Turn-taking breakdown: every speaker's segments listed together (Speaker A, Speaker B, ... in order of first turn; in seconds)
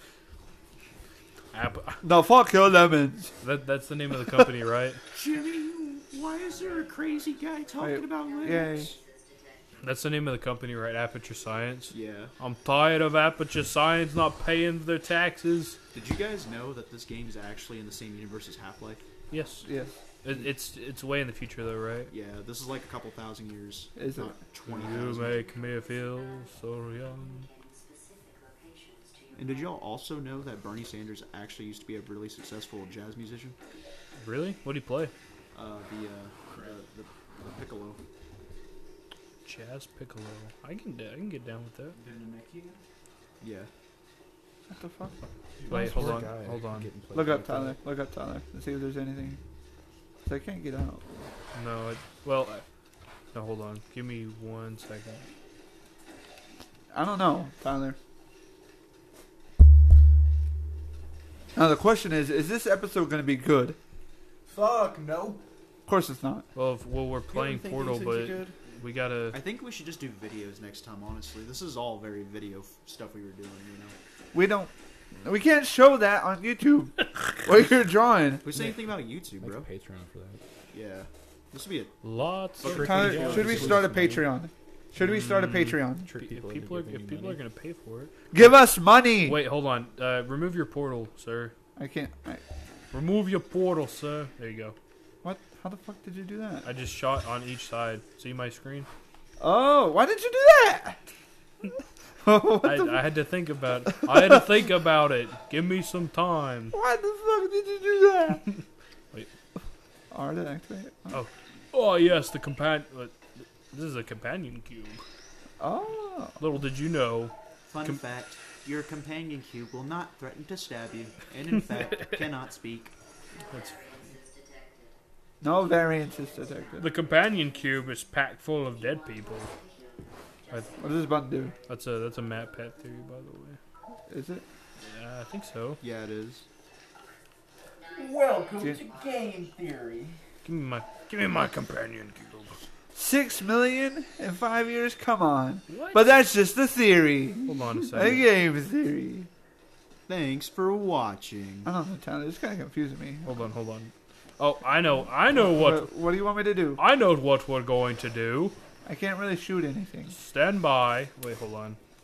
Speaker A: 1.5-2.0, 3.4-5.0, 9.8-15.8, 19.3-19.7, 20.2-22.1, 24.7-27.5, 34.2-35.1, 39.5-42.0, 45.7-46.9, 51.5-52.7, 53.3-55.3, 66.5-69.4, 82.0-83.9, 85.0-88.5, 89.2-91.5, 92.9-94.8, 96.6-98.9, 102.6-106.8, 108.5-109.3, 111.1-115.0, 116.4-118.0, 123.5-124.1, 126.8-129.5, 131.7-133.6, 134.8-135.8, 140.4-142.6, 145.7-146.0, 147.5-148.3, 153.2-155.9, 156.8-158.6, 160.1-161.8
Speaker B: 2.0-3.3, 7.8-8.9, 19.6-19.9, 24.0-24.4, 44.7-45.2, 47.1-49.4, 50.3-51.1, 56.9-58.0, 61.5-63.8, 65.9-66.5, 74.3-74.7, 75.2-78.5, 82.7-86.1, 88.3-89.4, 91.8-92.4, 95.2-96.7, 99.4-101.0, 102.2-103.0, 106.7-108.4, 110.1-111.2, 115.6-116.4, 125.4-126.9, 130.8-131.5, 134.1-134.4, 142.9-149.3, 151.7-153.4, 155.3-156.8, 158.8-160.2
Speaker C: 5.1-9.0, 11.9-12.3, 15.9-19.1, 22.1-25.6, 29.4-33.6, 35.5-38.0, 43.4-43.7, 69.3-74.0, 78.4-79.7, 80.7-81.9, 82.6-83.8, 117.7-122.9, 135.8-136.4, 150.1-151.7
Speaker D: 6.1-9.9, 25.2-29.8, 120.9-121.8, 123.3-125.0, 125.5-128.1, 128.7-132.6, 137.8-139.6
Speaker E: 41.9-42.8, 45.6-47.8, 64.5-65.4, 67.3-68.7, 78.5-80.4, 82.6-84.2, 86.0-87.4, 137.9-140.2